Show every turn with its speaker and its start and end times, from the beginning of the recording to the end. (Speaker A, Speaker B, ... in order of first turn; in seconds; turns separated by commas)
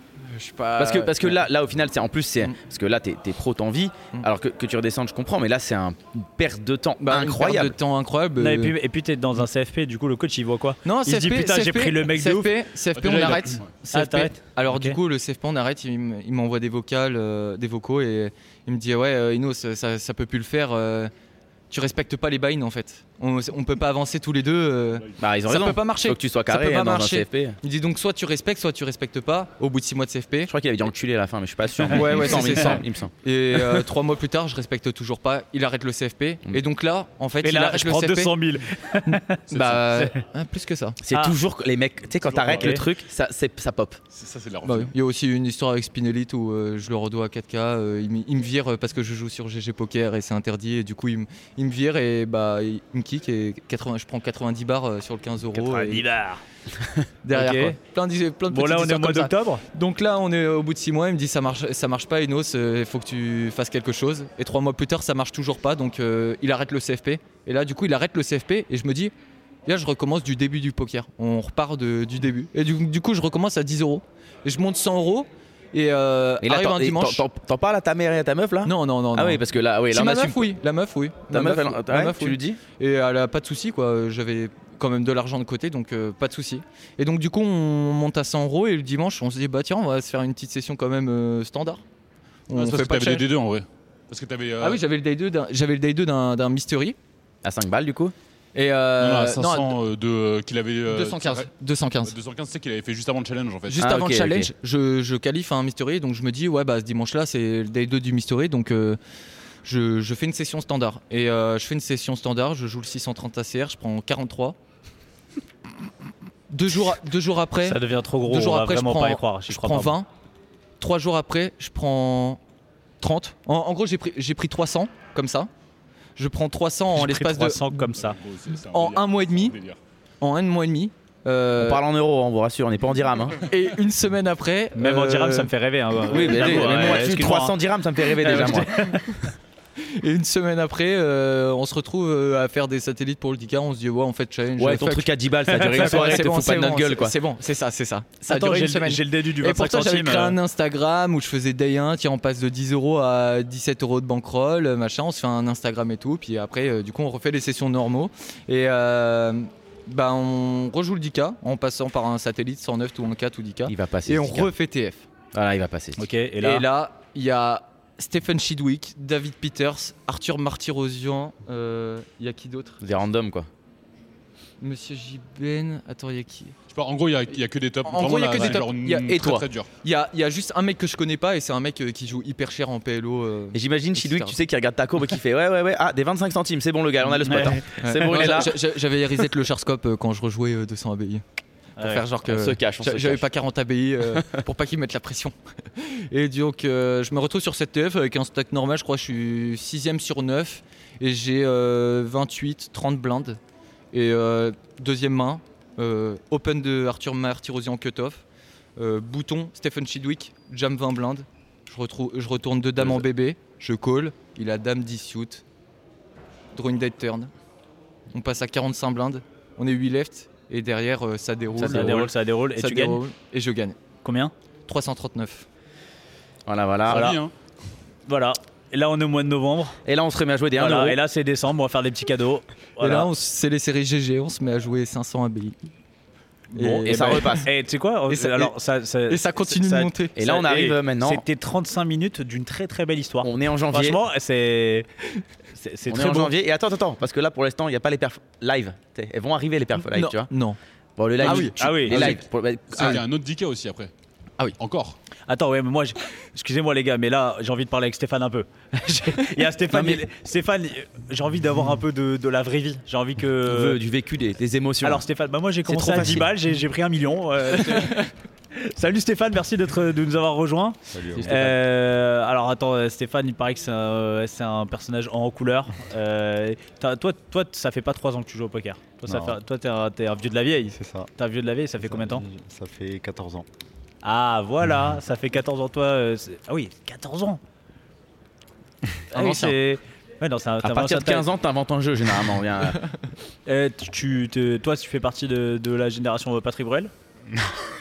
Speaker A: 0.3-1.4, Speaker B: 0.8-7.8, Speaker A: 7.0-8.7, Speaker C: 8.4-12.5, Speaker A: 10.8-21.1, Speaker D: 12.9-13.7, Speaker C: 13.9-15.0, Speaker A: 21.7-30.5, Speaker B: 25.2-27.6, Speaker B: 30.5-33.9, Speaker A: 31.9-38.3, Speaker C: 37.4-39.4, Speaker A: 39.1-41.0, Speaker D: 39.5-40.1, Speaker B: 41.0-44.0, Speaker D: 42.2-42.8, Speaker C: 42.5-42.8, Speaker D: 44.1-44.9, Speaker A: 44.6-56.0, Speaker C: 55.6-56.4, Speaker A: 57.2-69.1, Speaker C: 57.3-57.8, Speaker C: 58.5-59.6, Speaker A: 69.7-77.2, Speaker B: 76.4-80.5, Speaker A: 78.7-91.8, Speaker B: 81.3-82.6, Speaker A: 92.5-93.3, Speaker D: 92.5-94.8, Speaker A: 94.6-97.0, Speaker B: 97.4-98.1, Speaker A: 98.5-99.8, Speaker D: 99.0-101.5, Speaker A: 100.9-102.1, Speaker D: 102.0-103.9, Speaker A: 103.7-109.0, Speaker B: 103.8-104.5, Speaker A: 109.7-114.6, Speaker A: 116.5-120.1, Speaker C: 117.6-120.0, Speaker A: 120.8-122.4, Speaker A: 123.0-125.5, Speaker A: 126.2-127.9, Speaker C: 127.0-128.2, Speaker D: 127.9-129.8, Speaker A: 128.7-129.6, Speaker A: 130.2-131.8, Speaker B: 131.6-133.4, Speaker A: 133.5-135.5, Speaker C: 134.8-137.6, Speaker B: 136.1-138.9, Speaker A: 136.1-137.2, Speaker C: 138.2-139.2, Speaker A: 138.4-138.7, Speaker A: 139.8-165.1, Speaker B: 144.6-147.2, Speaker C: 145.6-146.2, Speaker C: 148.3-150.4, Speaker B: 163.7-164.5, Speaker B: 165.3-166.1, Speaker C: 166.0-166.7, Speaker A: 166.4-172.8, Speaker B: 172.8-173.5, Speaker A: 174.6-176.6, Speaker D: 176.7-179.7, Speaker A: 177.8-184.4, Speaker B: 179.1-179.5, Speaker B: 183.5-188.6, Speaker C: 187.3-187.6, Speaker A: 187.7-191.2, Speaker C: 191.8-192.0, Speaker A: 191.8-203.4, Speaker B: 192.2-193.2, Speaker B: 194.1-194.4, Speaker A: 203.9-208.2, Speaker A: 208.8-215.4, Speaker A: 216.5-217.3, Speaker A: 218.1-223.8, Speaker C: 221.6-223.0, Speaker C: 224.0-224.3, Speaker A: 224.7-225.5, Speaker B: 226.5-227.2, Speaker D: 226.9-227.3, Speaker C: 226.9-227.2, Speaker C: 228.1-229.8, Speaker B: 229.8-231.0, Speaker C: 230.6-233.1, Speaker A: 232.8-235.6, Speaker C: 236.5-244.9, Speaker A: 236.6-237.5, Speaker B: 236.8-237.5, Speaker A: 238.1-238.5, Speaker A: 239.1-240.4, Speaker B: 240.2-241.2, Speaker B: 243.2-244.0, Speaker C: 245.5-246.3, Speaker B: 245.9-250.3, Speaker A: 249.9-250.6, Speaker B: 251.0-253.0, Speaker A: 251.2-252.1, Speaker C: 251.2-252.2, Speaker D: 252.7-253.9, Speaker D: 254.6-255.0, Speaker C: 255.3-263.8, Speaker B: 259.7-260.0, Speaker B: 263.5-265.1, Speaker C: 264.8-268.0, Speaker B: 265.6-266.3, Speaker A: 267.7-268.1, Speaker C: 268.6-282.2, Speaker E: 270.9-271.5, Speaker B: 271.1-271.6, Speaker E: 279.1-279.4, Speaker E: 280.7-281.1, Speaker E: 281.8-283.5, Speaker C: 284.0-287.4, Speaker C: 289.1-291.2, Speaker A: 289.1-289.6, Speaker B: 290.6-292.8, Speaker C: 293.5-296.9